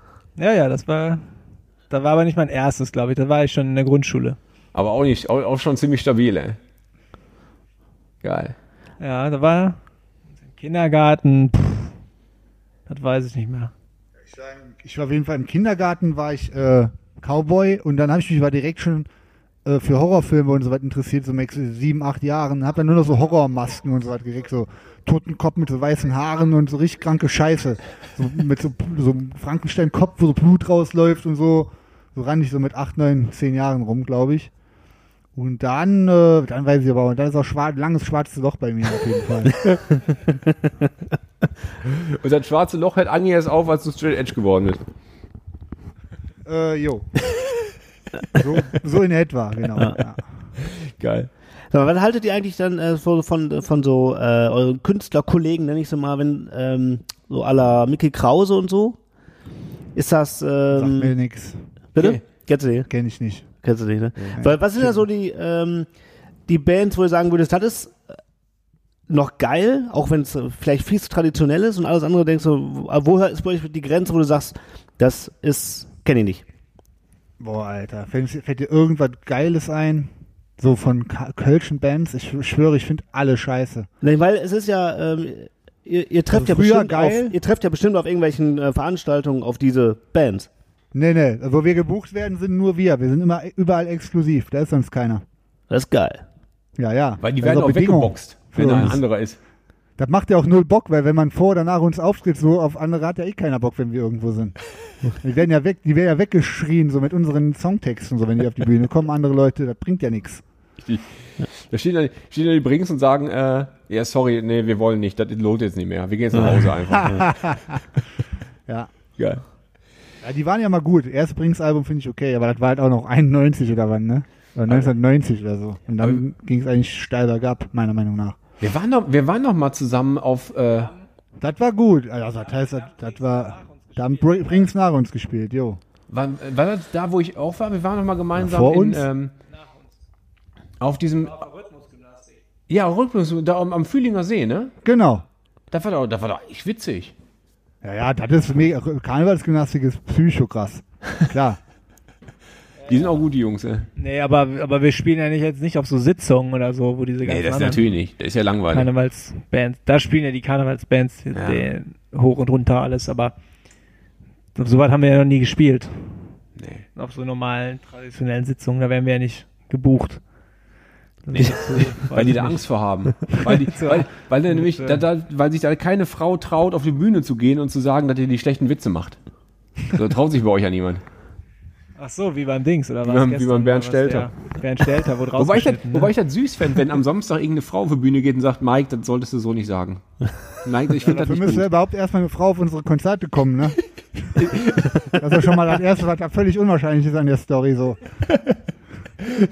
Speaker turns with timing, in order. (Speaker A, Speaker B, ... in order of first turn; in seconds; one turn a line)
Speaker A: 0.4-1.2
Speaker A: 1.9-4.4
Speaker B: 4.7-6.6
Speaker B: 8.2-8.6
Speaker A: 9.0-9.8
Speaker A: 10.5-11.9
Speaker A: 12.9-13.7
Speaker C: 14.3-19.1
Speaker C: 19.6-34.5
Speaker C: 35.3-39.7
Speaker D: 39.7-40.6
Speaker B: 41.8-44.8
Speaker C: 46.5-47.1
Speaker C: 48.3-50.2
Speaker B: 50.6-51.3
Speaker D: 51.7-59.0
Speaker D: 59.9-61.1
Speaker C: 60.7-61.6
Speaker D: 61.9-62.9
Speaker C: 62.9-63.5
Speaker D: 63.6-65.9
Speaker C: 64.3-65.0
Speaker D: 66.5-68.0
Speaker D: 69.1-76.4
Speaker C: 77.4-83.9
Speaker D: 84.0-90.5
Speaker C: 86.3-87.3
Speaker C: 90.9-95.2
Speaker D: 95.7-96.2
Speaker C: 96.8-99.0
Speaker B: 97.2-99.4
Speaker C: 100.0-104.6
Speaker C: 105.2-110.4
Speaker B: 110.8-117.6
Speaker C: 117.0-117.8
Speaker C: 120.2-128.4
Speaker B: 128.6-130.9
Speaker C: 131.4-135.8
Speaker B: 136.1-139.3
Speaker C: 138.3-139.1
Speaker B: 140.8-141.5
Speaker A: 141.5-142.3
Speaker B: 142.7-144.7
Speaker C: 144.8-145.2
Speaker B: 145.7-147.1
Speaker C: 147.8-151.6
Speaker B: 152.9-153.9
Speaker A: 153.9-157.8
Speaker B: 157.2-158.9
Speaker A: 158.7-163.3
Speaker B: 161.3-161.7
Speaker A: 164.5-166.2
Speaker B: 166.6-166.8
Speaker A: 166.9-170.2
Speaker A: 171.2-172.6
Speaker B: 172.0-179.2
Speaker A: 173.2-175.0
Speaker B: 179.9-181.0
Speaker A: 182.0-186.1
Speaker B: 183.0-184.3
Speaker B: 185.3-191.7
Speaker C: 191.0-198.0
Speaker B: 194.3-195.4